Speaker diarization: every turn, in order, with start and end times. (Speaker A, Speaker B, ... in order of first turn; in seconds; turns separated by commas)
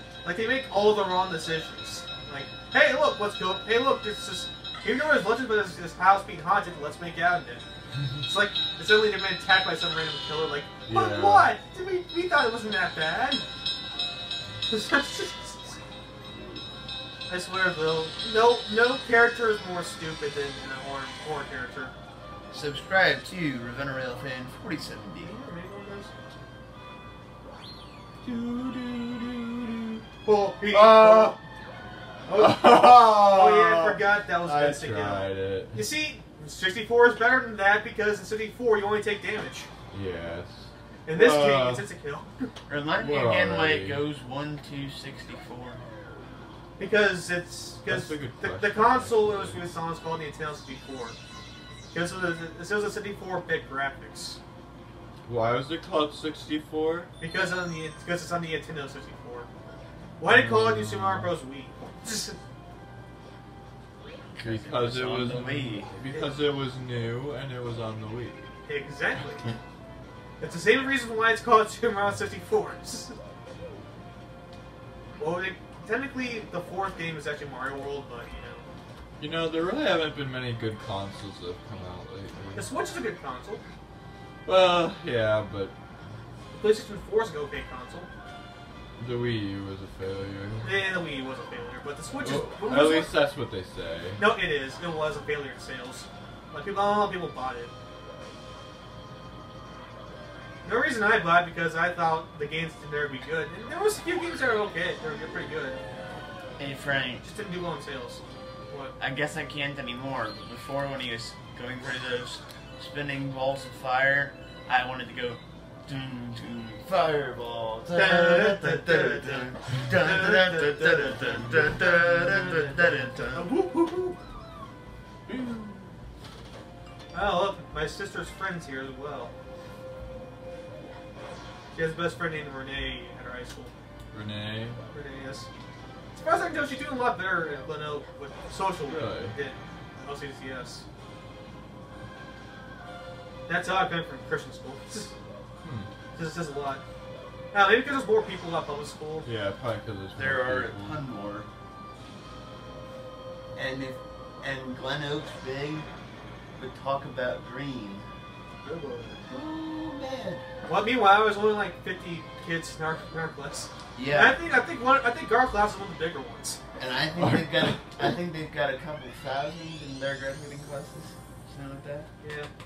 Speaker A: 0.2-7.6, Speaker A: 8.2-13.4, Speaker B: 10.9-11.5, Speaker A: 14.7-15.8, Speaker A: 17.3-21.9, Speaker C: 22.5-25.3, Speaker A: 25.2-26.1, Speaker B: 28.2-30.0, Speaker A: 30.2-31.4, Speaker B: 30.7-31.4, Speaker A: 32.3-39.7, Speaker B: 32.3-35.8, Speaker B: 39.9-41.9, Speaker A: 41.0-42.5, Speaker C: 42.7-45.8, Speaker B: 43.0-44.0, Speaker A: 46.8-51.1, Speaker B: 47.8-49.6, Speaker A: 51.9-54.4, Speaker B: 55.2-57.1, Speaker A: 57.2-59.5, Speaker A: 60.2-62.4, Speaker B: 60.2-61.3, Speaker C: 64.3-66.0, Speaker B: 64.4-68.5, Speaker A: 68.6-69.5, Speaker A: 70.4-73.2, Speaker A: 75.2-78.7, Speaker B: 79.2-82.7, Speaker A: 82.5-83.6, Speaker B: 84.5-85.7, Speaker A: 86.5-88.1, Speaker B: 89.0-90.8, Speaker A: 90.6-93.2, Speaker B: 92.2-94.2, Speaker A: 94.2-97.7, Speaker A: 100.6-105.8, Speaker C: 106.6-107.2, Speaker A: 107.2-109.0, Speaker C: 109.0-123.5, Speaker A: 117.9-124.2, Speaker B: 125.3-125.8, Speaker A: 127.1-129.3, Speaker A: 131.7-133.7, Speaker B: 134.1-134.8, Speaker A: 134.9-135.5, Speaker A: 136.1-140.8, Speaker B: 138.8-139.3, Speaker A: 143.5-145.1, Speaker B: 145.6-145.9, Speaker A: 146.1-146.8, Speaker A: 147.5-149.3, Speaker B: 149.2-151.0, Speaker C: 150.2-151.5, Speaker C: 153.5-155.9, Speaker C: 156.6-158.1, Speaker A: 158.6-159.2, Speaker C: 159.3-160.4, Speaker A: 160.7-166.6, Speaker C: 163.9-164.4, Speaker C: 166.8-172.1, Speaker B: 167.2-167.8, Speaker A: 172.2-172.5